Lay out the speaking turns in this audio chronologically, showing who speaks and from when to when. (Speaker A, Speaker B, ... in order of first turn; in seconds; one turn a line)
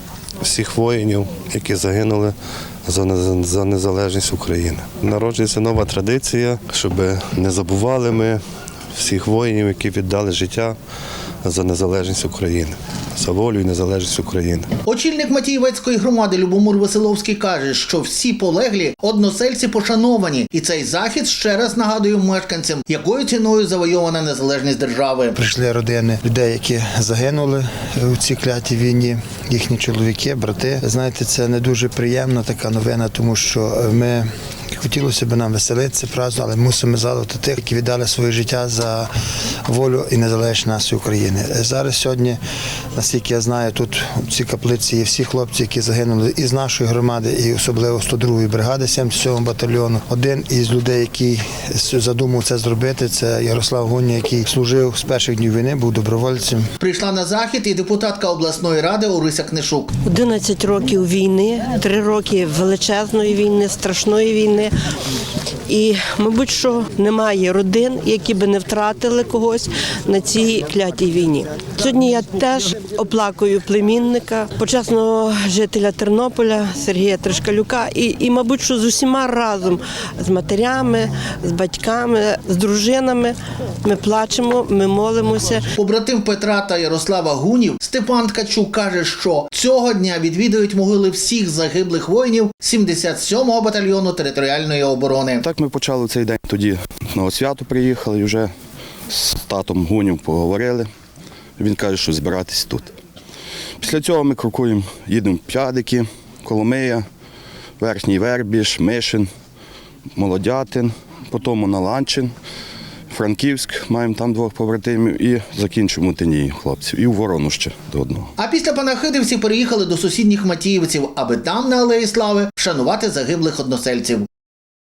Speaker A: 0.4-2.3
Speaker A: 2.9-8.4
Speaker A: 8.9-10.7
Speaker A: 11.4-14.7
Speaker B: 14.8-25.4
Speaker C: 25.3-39.1
Speaker C: 39.7-42.4
Speaker C: 42.9-56.6
Speaker B: 56.8-59.9
Speaker D: 60.0-64.7
Speaker D: 65.7-85.7
Speaker B: 85.8-95.4
Speaker E: 95.4-98.5
Speaker E: 99.1-100.9
Speaker E: 101.6-102.9
Speaker E: 103.8-107.1
Speaker E: 107.8-109.3
Speaker E: 110.1-112.3
Speaker E: 113.1-118.3
Speaker B: 118.4-124.2